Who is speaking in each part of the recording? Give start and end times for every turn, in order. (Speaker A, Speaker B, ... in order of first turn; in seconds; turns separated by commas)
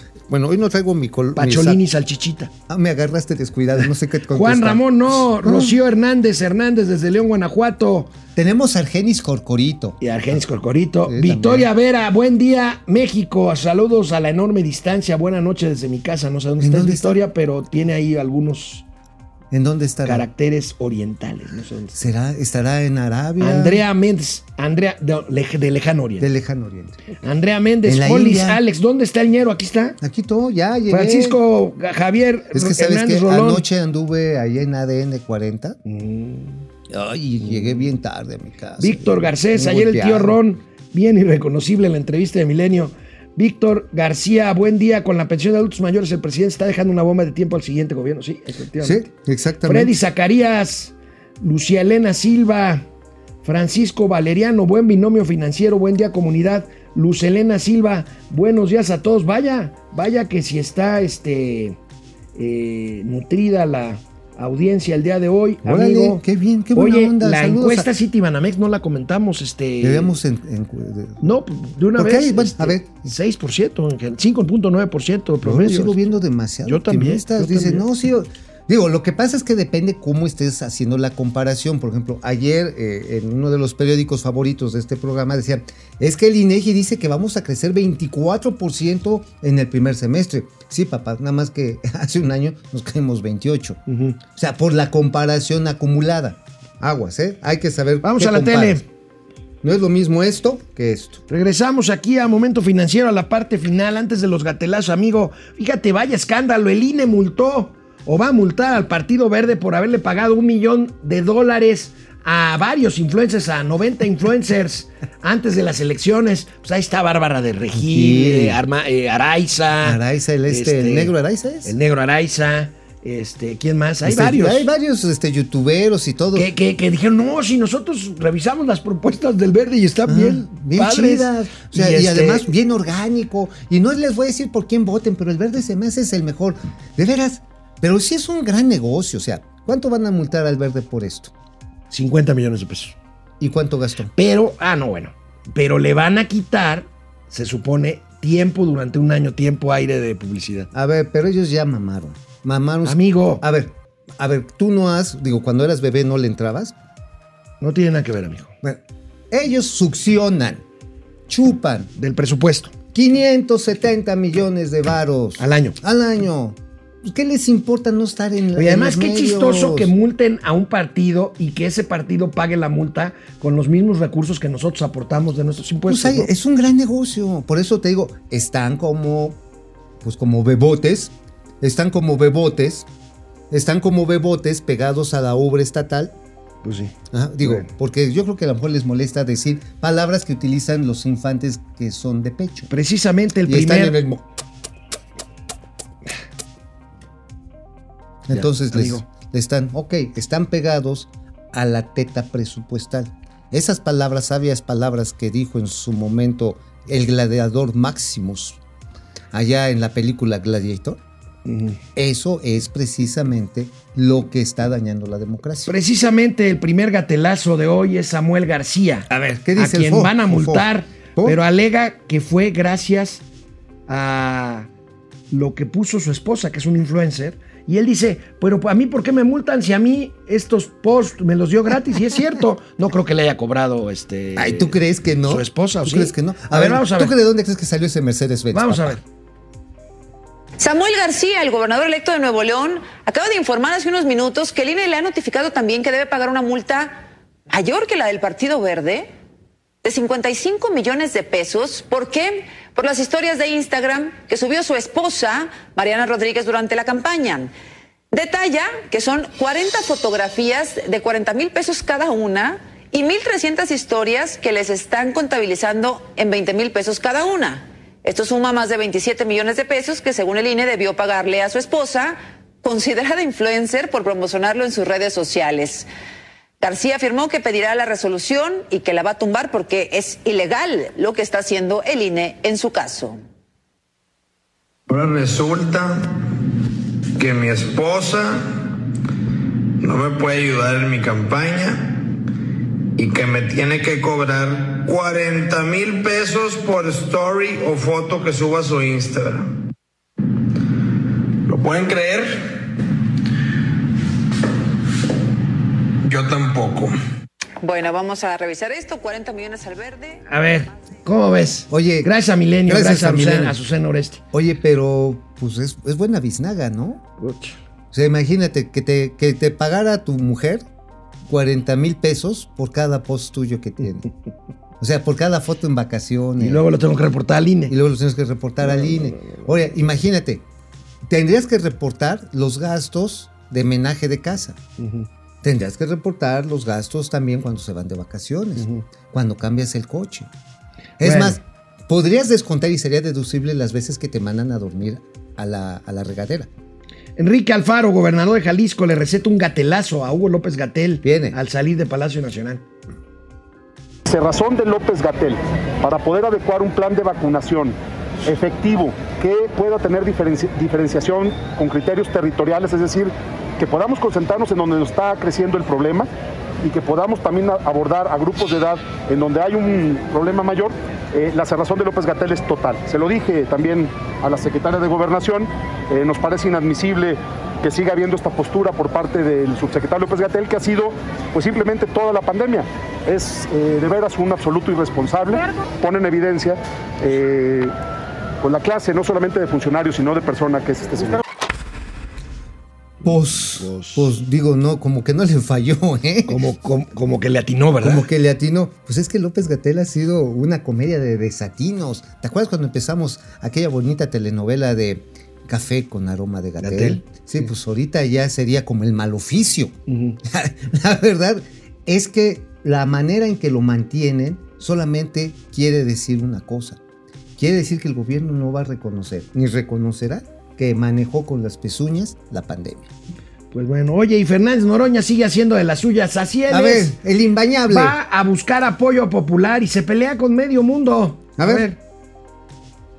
Speaker A: 0.3-1.8, Speaker B: 1.4-2.5, Speaker A: 2.7-5.8, Speaker B: 3.8-8.1, Speaker A: 8.4-10.4, Speaker B: 10.0-18.9, Speaker A: 11.1-11.7, Speaker A: 16.6-17.2, Speaker A: 19.5-20.3, Speaker B: 20.1-22.1, Speaker A: 21.9-23.8, Speaker B: 23.4-26.3, Speaker A: 26.2-27.0, Speaker B: 27.2-30.0, Speaker A: 27.9-28.6, Speaker A: 30.0-31.4, Speaker B: 30.9-33.6, Speaker A: 32.5-35.8, Speaker B: 35.9-36.7, Speaker A: 36.9-40.4, Speaker B: 37.4-37.9, Speaker B: 38.8-49.1, Speaker A: 48.8-49.9, Speaker B: 49.6-52.9, Speaker B: 53.4-61.8, Speaker B: 62.4-66.2, Speaker A: 65.6-67.9, Speaker B: 66.8-70.2, Speaker A: 69.8-71.2, Speaker B: 71.2-76.0, Speaker A: 72.0-73.0, Speaker A: 75.4-98.8, Speaker B: 76.7-77.8, Speaker B: 93.9-94.2, Speaker B: 98.0-98.9, Speaker A: 99.6-101.2, Speaker B: 101.3-120.0, Speaker A: 117.8-118.6, Speaker A: 119.8-121.7, Speaker B: 120.5-121.1, Speaker B: 121.7-124.7, Speaker A: 124.0-126.5, Speaker B: 126.3-132.5, Speaker A: 130.1-141.3, Speaker B: 141.9-143.0, Speaker A: 143.4-144.1, Speaker B: 144.2-150.7, Speaker A: 150.7-156.8, Speaker B: 152.8-153.4, Speaker B: 157.6-158.6, Speaker A: 158.6-160.6, Speaker A: 161.3-161.9, Speaker B: 162.0-162.7, Speaker A: 162.9-169.9, Speaker B: 165.4-165.8, Speaker B: 168.6-176.3, Speaker A: 175.9-179.4, Speaker A: 180.0-182.9, Speaker A: 183.5-186.2, Speaker B: 186.6-187.7, Speaker A: 187.1-192.7, Speaker B: 192.7-194.0, Speaker A: 193.5-194.3, Speaker A: 198.3-208.6, Speaker B: 198.3-199.1, Speaker A: 209.3-211.0, Speaker B: 211.4-211.8, Speaker A: 212.0-215.7, Speaker B: 215.7-223.2, Speaker A: 219.1-221.4, Speaker B: 223.9-224.7, Speaker B: 225.3-234.8, Speaker A: 234.4-239.0, Speaker B: 235.3-237.1, Speaker B: 238.5-239.0, Speaker C: 240.6-249.1, Speaker C: 249.8-257.5, Speaker C: 258.1-275.9, Speaker C: 276.6-283.2, Speaker D: 284.9-286.2, Speaker D: 287.2-288.6, Speaker D: 289.8-292.0, Speaker D: 293.0-299.5, Speaker D: 301.5-302.6, Speaker D: 306.0-307.0, Speaker C: 307.6-310.2, Speaker B: 310.3-314.2, Speaker A: 311.7-312.1, Speaker A: 312.7-313.6, Speaker A: 314.3-317.0, Speaker B: 317.2-317.6, Speaker A: 317.9-320.7, Speaker A: 321.3-324.1, Speaker A: 324.8-326.6, Speaker B: 326.4-327.7, Speaker A: 327.7-330.4, Speaker B: 328.6-329.6, Speaker A: 331.1-334.6, Speaker B: 334.8-335.1, Speaker A: 335.4-340.3, Speaker B: 338.6-338.9, Speaker B: 341.0-341.4, Speaker A: 341.0-346.5, Speaker B: 347.2-352.6, Speaker A: 351.0-351.4, Speaker E: 354.1-366.1, Speaker E: 366.6-387.7, Speaker E: 388.4-391.2, Speaker A: 393.0-396.4, Speaker B: 393.0-394.1, Speaker B: 396.3-398.1, Speaker A: 397.8-416.8, Speaker B: 406.6-407.5, Speaker B: 409.9-410.2, Speaker A: 417.4-422.9, Speaker B: 423.5-426.9, Speaker A: 426.5-428.0, Speaker B: 427.7-431.8, Speaker A: 431.4-431.7